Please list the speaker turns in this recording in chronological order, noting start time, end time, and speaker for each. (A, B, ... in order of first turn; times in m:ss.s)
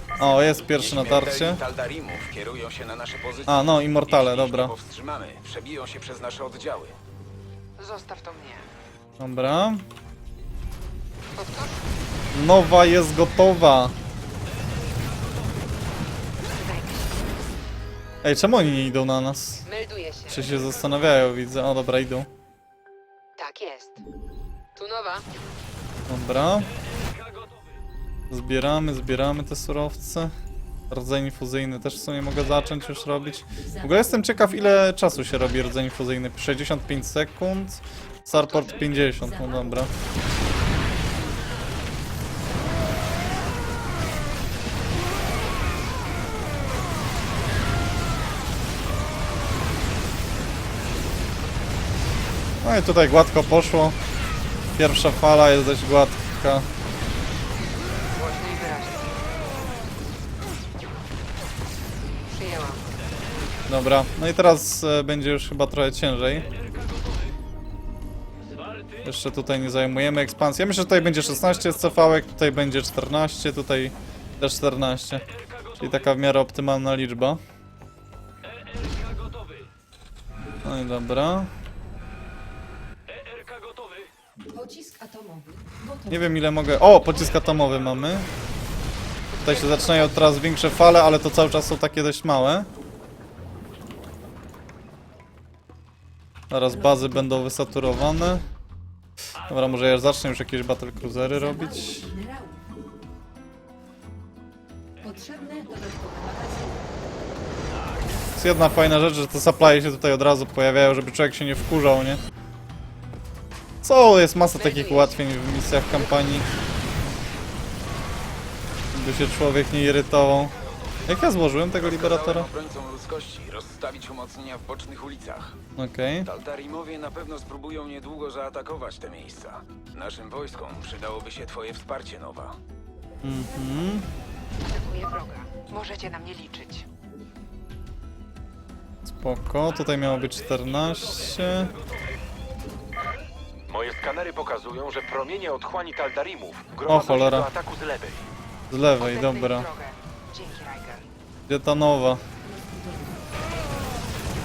0:00.1-0:00.7 A
0:00.2-0:01.6 B
0:00.7-0:07.0 C
0:03.5-0:04.7 B
0:07.8-0:08.7 D
0:09.2-0:09.8 B
0:11.3-0:11.8 D
0:12.3-0:13.9 B
0:16.5-0:17.3 D
0:18.2-0:19.6 B
0:19.6-0:20.5 D
0:20.3-0:22.3 B
0:23.4-0:24.0 D
0:24.7-0:25.3 D
0:26.1-0:26.7 B
0:27.1-0:27.4 E
0:28.3-0:30.3 B
0:30.9-0:39.9 B
0:33.6-0:34.9 A
0:38.4-0:39.9 A
0:52.6-0:54.0 B
0:54.8-0:56.6 B
0:58.1-0:59.2 D
1:02.3-1:02.8 D
1:03.7-1:06.5 B
1:09.0-1:15.2 B
1:15.4-1:15.8 E
1:15.8-1:17.4 B
1:18.5-1:19.7 E
1:20.6-1:21.5 B
1:23.1-1:24.1 E
1:24.5-1:26.4 A
1:26.1-1:28.2 B
1:29.3-1:30.3 D
1:29.4-1:32.7 B
1:36.5-1:38.4 B
1:36.7-1:38.4 A
1:39.4-1:42.1 B
1:41.3-1:42.6 A
1:45.0-1:46.9 A
1:48.4-1:52.2 B
1:53.8-1:56.4 B
1:54.5-1:55.2 D
1:55.9-1:56.4 D
1:58.9-2:00.5 B
2:01.1-2:02.5 B
2:01.8-2:05.6 C
2:05.8-2:06.3 B
2:06.2-2:12.6 C
2:13.2-2:14.0 B
2:14.6-2:16.9 D
2:19.1-2:21.7 B
2:20.1-2:21.9 E
2:23.7-2:28.3 E
2:26.9-2:27.5 B
2:28.7-2:29.7 B
2:29.0-2:31.0 D
2:31.5-2:32.2 B
2:32.4-2:33.3 A